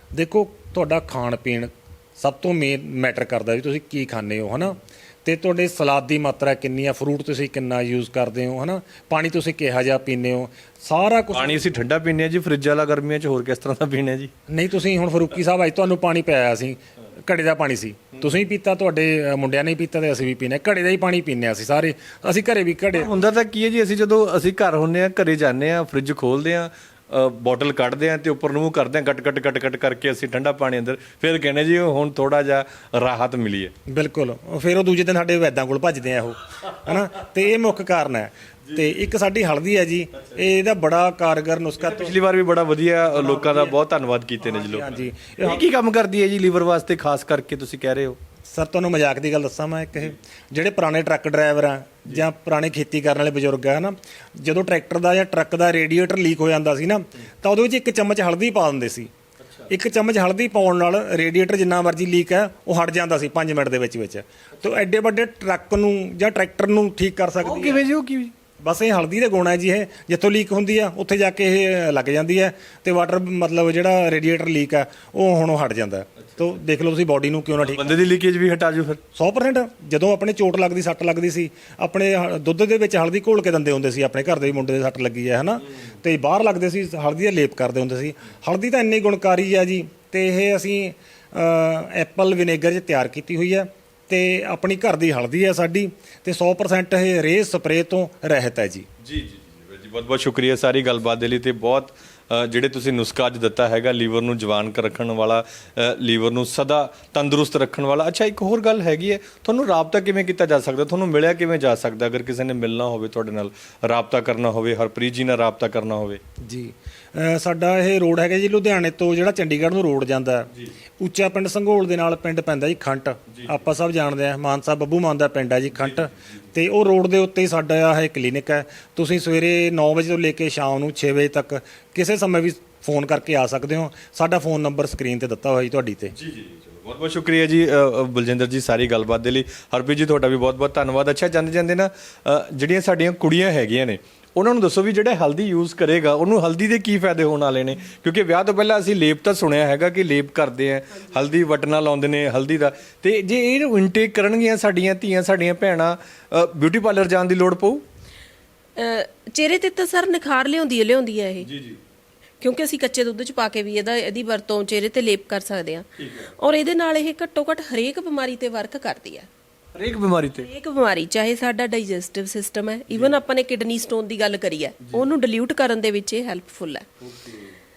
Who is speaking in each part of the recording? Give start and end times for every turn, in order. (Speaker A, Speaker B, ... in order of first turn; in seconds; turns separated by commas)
Speaker A: 0.1-11.7, Speaker B: 11.3-14.3, Speaker A: 14.5-23.1, Speaker B: 22.9-33.7, Speaker A: 33.9-42.2, Speaker B: 38.7-39.0, Speaker B: 41.8-48.2, Speaker A: 43.1-43.8, Speaker A: 44.4-45.6, Speaker A: 48.5-59.1, Speaker B: 59.4-59.7, Speaker A: 59.7-67.9, Speaker B: 67.4-68.3, Speaker A: 68.6-78.0, Speaker B: 77.6-79.0, Speaker A: 79.1-98.9, Speaker B: 99.0-116.2, Speaker A: 116.4-136.2, Speaker B: 123.3-123.6, Speaker B: 125.8-126.1, Speaker B: 136.1-157.8, Speaker C: 158.8-161.5, Speaker B: 161.4-161.8, Speaker C: 162.4-169.3, Speaker B: 166.0-166.3, Speaker B: 169.8-170.5, Speaker C: 170.4-176.9, Speaker B: 172.9-173.2, Speaker B: 177.0-177.6